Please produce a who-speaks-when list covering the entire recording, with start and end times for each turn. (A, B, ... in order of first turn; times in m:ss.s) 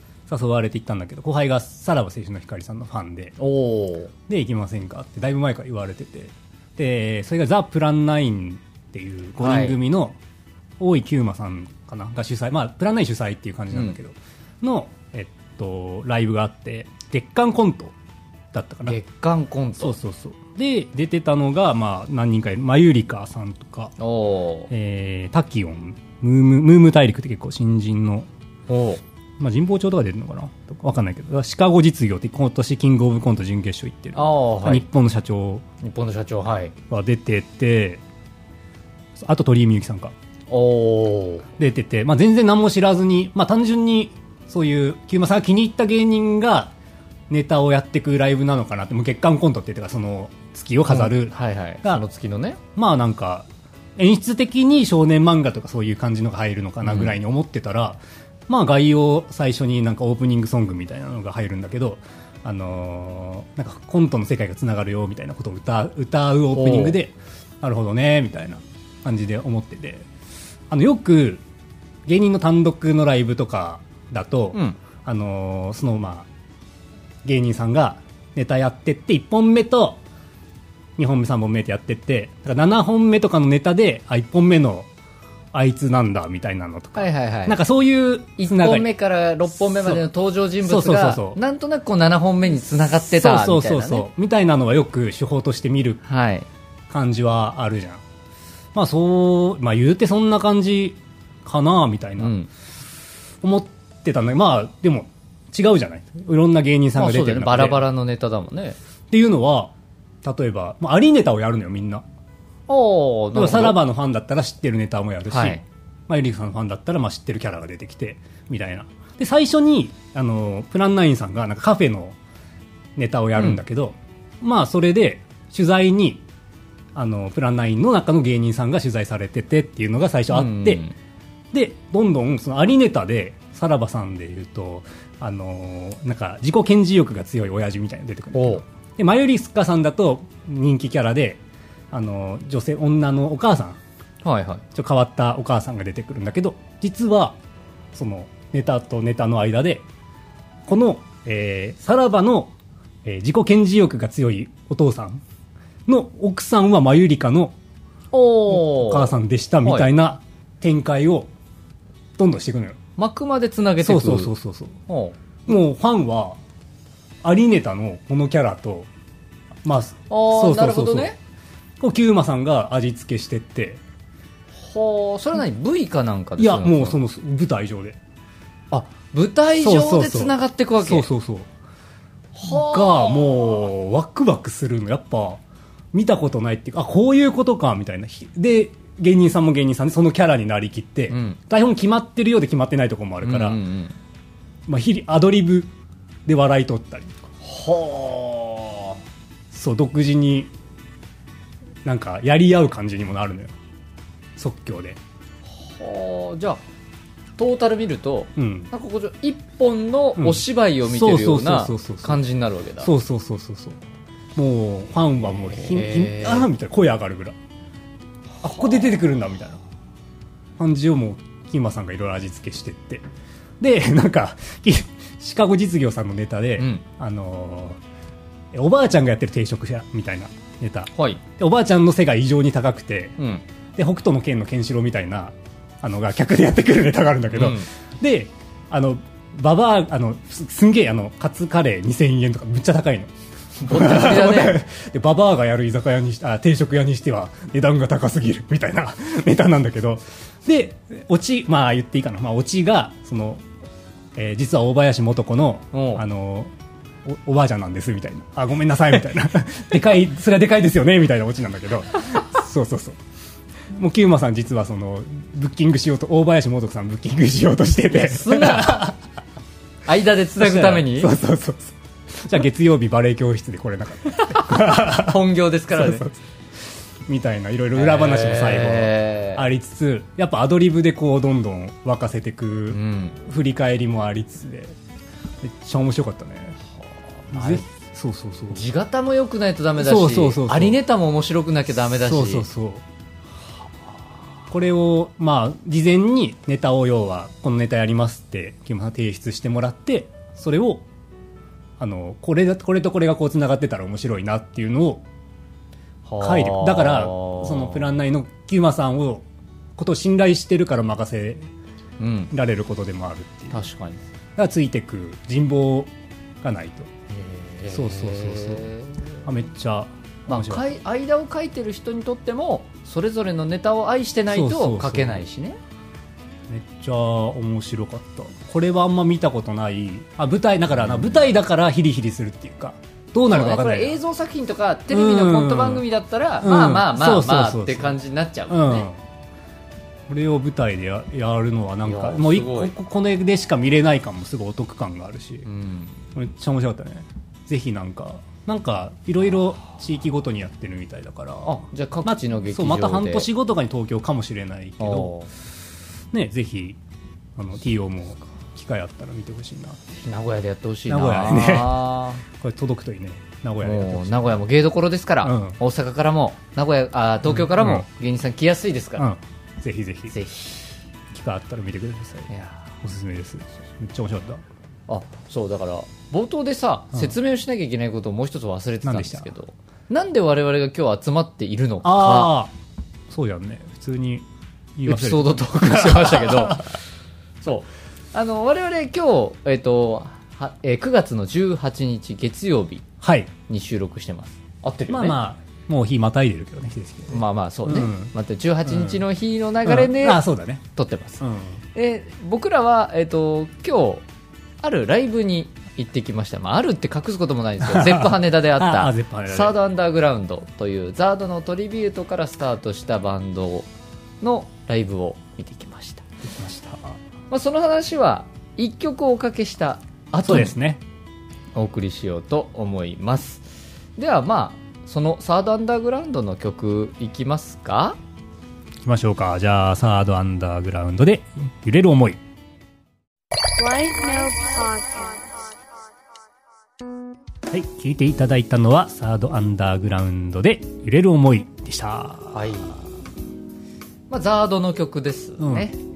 0:00.3-0:03.4 A
0:03.4-0:04.1 B
0:04.3-0:10.2 A
0:09.4-0:09.8 B
0:10.8-0:17.9 A
0:13.7-0:14.0 B
0:18.5-0:19.0 A
0:18.8-0:19.9 B
0:19.8-0:23.9 A
0:24.0-0:24.7 B
0:24.7-0:28.3 A
0:28.7-0:29.0 B
0:29.4-0:35.6 A
0:34.1-0:34.8 B
0:35.8-0:36.7 B
0:36.9-0:38.0 A
0:39.2-0:40.1 A
0:40.5-0:41.5 B
0:41.6-0:46.7 A
0:47.3-0:52.0 A
0:50.9-0:52.6 B
0:52.7-1:10.0 A
0:56.8-0:57.2 B
1:06.5-1:07.0 B
1:10.7-1:11.4 A
1:12.0-1:16.3 A
1:17.2-1:20.0 A
1:21.0-1:24.9 A
1:25.5-1:28.9 A
1:27.0-1:27.6 B
1:28.4-1:34.1 B
1:30.6-1:31.4 A
1:32.8-1:36.0 A
1:36.0-1:36.5 B
1:36.9-1:38.0 A
1:38.7-1:42.3 A
1:42.2-1:42.5 B
1:43.4-1:47.8 A
1:46.9-1:48.8 B
1:49.1-1:49.7 A
1:50.2-1:52.0 A
1:52.7-1:53.8 B
1:53.3-2:02.2 A
1:55.3-1:55.6 B
2:03.0-2:06.2 A
2:03.4-2:03.6 B
2:06.9-2:10.8 A
2:10.3-2:10.9 B
2:11.5-2:23.8 A
2:18.3-2:18.6 B
2:24.2-2:24.6 B
2:24.7-2:27.4 A
2:27.9-2:29.8 A
2:30.6-2:32.5 A
2:33.0-2:35.2 A
2:35.8-2:37.6 A
2:38.1-2:39.1 B
2:38.5-2:41.3 A
2:39.6-2:39.9 B
2:42.2-2:42.8 A
2:43.0-2:44.3 B
2:43.8-2:44.8 A
2:44.9-2:45.5 B
2:45.5-2:46.4 A
2:47.2-2:48.9 A
2:49.6-2:51.1 A
2:50.1-2:51.2 B
2:51.8-2:53.8 A
2:54.6-2:57.0 B
2:56.4-2:58.0 A
2:58.7-3:01.1 B
2:59.6-3:01.5 A
3:02.3-3:03.6 B
3:02.4-3:05.4 A
3:05.9-3:13.6 A
3:11.1-3:11.4 B
3:13.2-3:13.9 B
3:14.7-3:15.7 A
3:16.2-3:17.1 A
3:17.4-3:19.0 B
3:19.5-3:20.5 A
3:21.8-3:23.5 A
3:24.4-3:25.0 A
3:25.5-3:26.6 B
3:27.4-3:32.9 B
3:28.4-3:28.7 A
3:30.2-3:32.2 A
3:32.8-3:33.8 A
3:34.3-3:37.4 A
3:35.5-3:36.5 B
3:38.4-3:39.6 A
3:40.6-3:43.0 A
3:43.6-3:47.8 A
3:46.6-3:46.8 B
3:48.5-3:53.2 A
3:50.9-3:51.2 B
3:53.2-3:53.4 B
3:53.8-4:13.4 A
3:57.3-3:57.7 B
4:03.6-4:04.6 B
4:14.1-4:16.5 A
4:15.7-4:16.0 B
4:17.0-4:23.0 A
4:23.7-4:29.0 A
4:27.9-4:28.9 B
4:29.8-4:31.1 B
4:30.4-4:44.8 A
4:34.4-4:36.0 B
4:37.7-4:39.5 B
4:42.7-4:43.2 B
4:45.4-4:46.6 A
4:47.3-4:47.7 B
4:47.3-4:48.6 A
4:48.5-4:52.5 B
4:49.8-4:50.8 A
4:51.7-4:52.8 A
4:54.5-5:00.8 A
5:01.8-5:05.0 A
5:06.0-5:07.9 B
5:06.2-5:09.2 A
5:09.8-5:11.5 A
5:12.0-5:12.3 B
5:12.3-5:13.6 A
5:13.5-5:14.0 B
5:14.4-5:16.9 A
5:17.1-5:19.2 B
5:17.7-5:18.7 A
5:19.2-5:20.6 A
5:20.3-5:25.6 B
5:24.3-5:25.2 A
5:26.5-5:34.0 A
5:30.8-5:31.2 B
5:33.3-5:38.9 B
5:34.9-5:35.8 A
5:36.4-5:38.0 A
5:38.5-5:39.0 A
5:40.1-5:45.5 A
5:41.8-5:42.7 B
5:45.4-5:46.0 B
5:46.1-5:55.1 A
5:51.4-5:53.3 B
5:54.8-5:55.3 B
5:56.1-5:56.8 A
5:57.4-5:59.9 A
6:00.0-6:02.2 B
6:00.9-6:04.4 A
6:03.6-6:09.1 B
6:05.2-6:05.6 A
6:07.3-6:07.9 A
6:09.0-6:10.1 A
6:10.1-6:10.7 B
6:11.1-6:12.3 A
6:12.3-6:12.6 B
6:12.8-6:14.4 A
6:14.9-6:22.3 B
6:18.8-6:19.3 A
6:21.8-6:22.5 A
6:23.1-6:26.7 A
6:24.8-6:26.8 B
6:27.4-6:32.8 B
6:33.0-6:33.3 A
6:33.5-6:35.2 B
6:34.9-6:38.1 A
6:37.1-6:40.2 B
6:38.6-6:39.0 A
6:39.6-6:40.6 A
6:40.7-6:41.2 B
6:41.2-6:41.6 A
6:41.7-6:44.0 B
6:44.6-6:53.7 B
6:47.6-6:49.6 A
6:54.2-6:56.0 B
6:56.2-6:57.0 A
6:57.3-7:00.6 B
7:00.2-7:00.8 A
7:01.5-7:08.0 B
7:08.8-7:12.2 A
7:13.6-7:15.5 C
7:17.5-7:22.6 A
7:22.3-7:22.8 B
7:24.1-7:25.8 B
7:25.4-7:25.7 A